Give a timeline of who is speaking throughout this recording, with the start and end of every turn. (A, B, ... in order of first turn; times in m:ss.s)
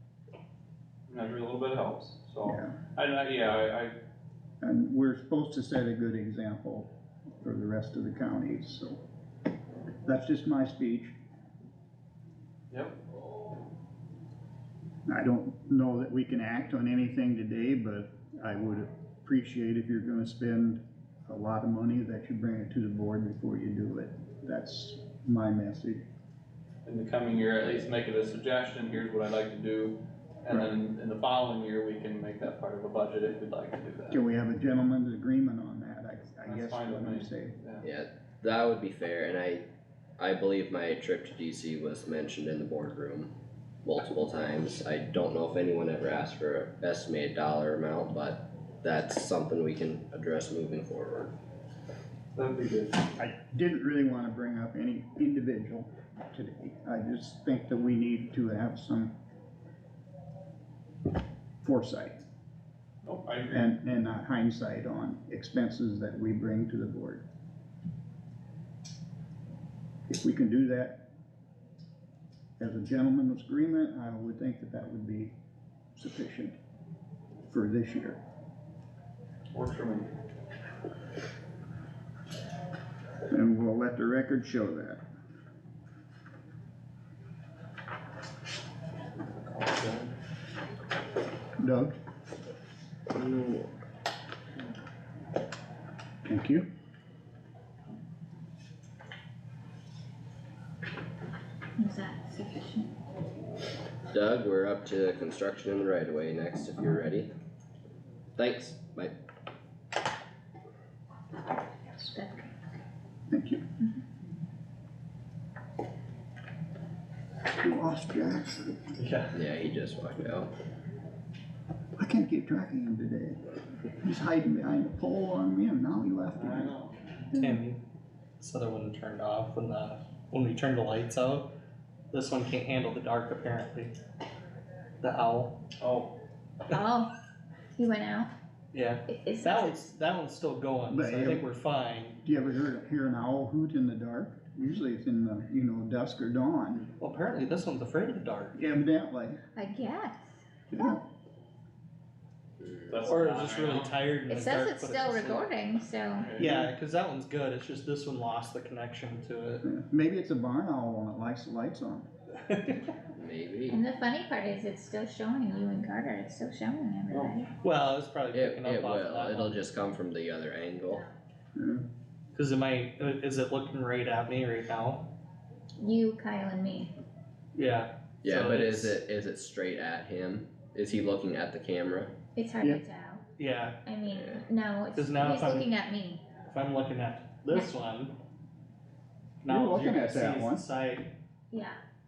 0:01.1-0:04.0 A
0:02.4-0:02.7 B
0:04.6-0:06.9 B
0:07.4-0:09.0 B
0:10.0-0:11.1 B
0:12.7-0:13.0 A
0:15.1-0:26.0 B
0:26.8-0:34.2 A
0:34.1-0:37.6 B
0:36.4-0:37.8 A
0:37.8-0:39.6 C
0:40.2-0:43.3 C
0:43.8-0:51.3 C
0:52.3-0:53.0 A
0:53.2-0:59.1 B
1:01.6-1:02.2 B
1:03.0-1:03.7 A
1:03.5-1:07.2 B
1:10.1-1:11.0 B
1:12.6-1:15.3 B
1:16.0-1:16.6 B
1:17.5-1:18.2 B
1:19.5-1:20.1 A
1:23.3-1:25.0 B
1:29.6-1:29.9 A
1:31.6-1:31.9 B
1:33.1-1:33.7 C
1:36.2-1:36.7 B
1:41.8-1:42.9 D
1:44.1-1:47.3 C
1:48.4-1:49.1 C
1:51.9-1:52.5 D
1:53.3-1:53.6 B
1:57.6-1:58.8 B
1:59.0-1:59.3 E
1:59.3-2:00.5 C
2:02.0-2:03.4 B
2:04.0-2:06.7 B
2:06.3-2:07.1 A
2:07.3-2:07.8 E
2:08.4-2:11.5 E
2:12.1-2:13.9 E
2:15.0-2:15.5 E
2:15.8-2:16.1 A
2:16.7-2:17.1 D
2:17.8-2:18.3 D
2:18.7-2:22.2 E
2:19.1-2:19.7 D
2:20.9-2:21.4 B
2:22.2-2:26.9 B
2:27.0-2:28.6 E
2:28.6-2:29.4 B
2:29.5-2:30.4 D
2:30.7-2:31.0 B
2:32.9-2:34.0 A
2:33.1-2:35.5 E
2:34.3-2:36.3 D
2:36.2-2:36.6 A
2:36.4-2:39.6 E
2:39.6-2:42.0 B
2:42.5-2:42.9 E
2:43.1-2:43.8 C
2:43.7-2:47.5 D
2:47.6-2:49.5 E
2:48.3-2:51.0 C
2:50.9-2:51.1 D
2:51.6-2:51.8 B
2:52.3-2:55.1 E
2:55.8-2:56.9 D
2:57.5-2:58.9 E
2:58.2-3:02.1 C
3:02.3-3:03.2 D
3:03.4-3:03.8 E
3:03.8-3:06.3 D
3:04.9-3:05.7 E
3:06.4-3:08.1 E
3:09.4-3:11.1 E
3:09.4-3:10.6 B
3:11.5-3:11.8 D